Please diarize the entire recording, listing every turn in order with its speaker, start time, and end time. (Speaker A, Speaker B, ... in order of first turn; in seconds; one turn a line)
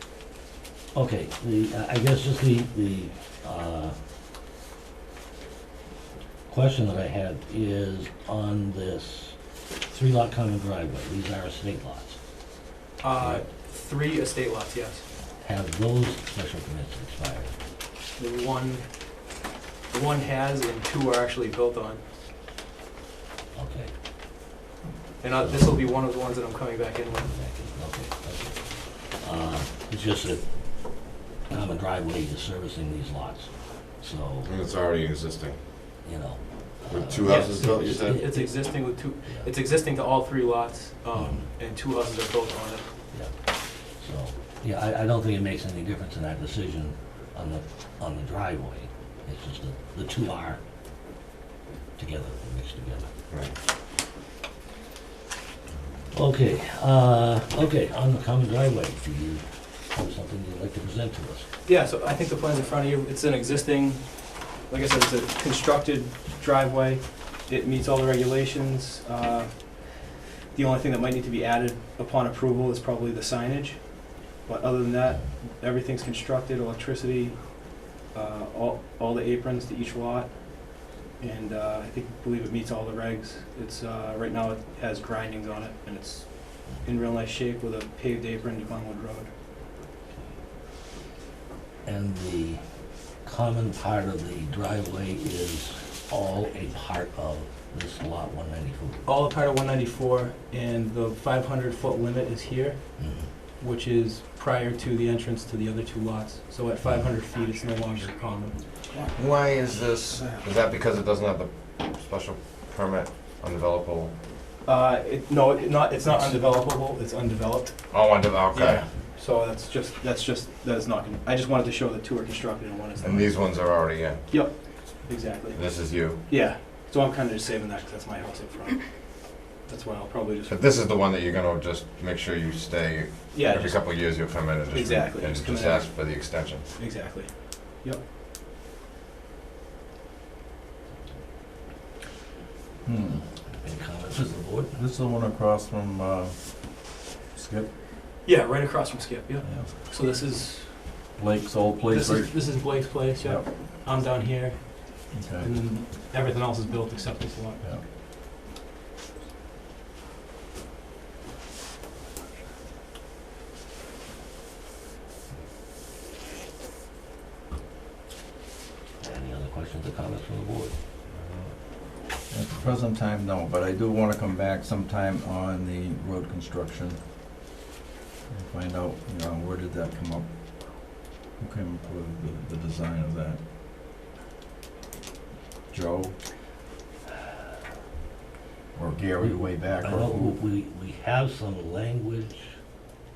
Speaker A: 0.9-3.9
Speaker A: 6.5-12.2
Speaker B: 13.0-15.0
Speaker A: 13.1-13.4
Speaker A: 15.4-17.5
Speaker B: 18.2-18.8
Speaker B: 19.9-22.0
Speaker A: 23.5-23.9
Speaker B: 25.2-27.3
Speaker A: 25.3-25.9
Speaker A: 27.2-30.4
Speaker A: 31.5-34.5
Speaker C: 34.5-35.5
Speaker A: 36.0-39.5
Speaker C: 36.9-38.2
Speaker B: 37.2-42.9
Speaker A: 41.1-41.4
Speaker A: 43.9-50.6
Speaker A: 52.0-53.1
Speaker A: 56.1-61.5
Speaker B: 61.6-64.1
Speaker B: 64.7-69.9
Speaker B: 70.5-80.4
Speaker B: 81.2-89.3
Speaker A: 91.8-92.6
Speaker A: 93.2-99.1
Speaker B: 99.0-103.0
Speaker A: 103.0-103.3
Speaker B: 103.6-108.6
Speaker A: 106.8-107.1
Speaker C: 109.1-114.1
Speaker B: 114.6-123.7
Speaker C: 117.9-118.8
Speaker C: 123.0-124.2
Speaker B: 124.3-130.6
Speaker C: 125.5-126.2
Speaker C: 130.5-136.6
Speaker B: 133.3-134.1
Speaker B: 134.7-136.0
Speaker B: 136.7-138.0
Speaker D: 142.8-143.2
Speaker A: 143.6-144.8
Speaker D: 144.1-146.3
Speaker D: 147.3-147.7
Speaker B: 148.2-150.8
Speaker D: 149.4-149.7
Speaker D: 151.2-152.6
Speaker B: 151.9-157.6
Speaker D: 153.2-153.5
Speaker D: 155.1-155.6
Speaker A: 169.0-170.7
Speaker D: 172.3-177.0
Speaker D: 178.3-180.2
Speaker D: 181.4-183.4
Speaker D: 185.7-186.1
Speaker D: 188.7-190.4
Speaker A: 189.2-192.6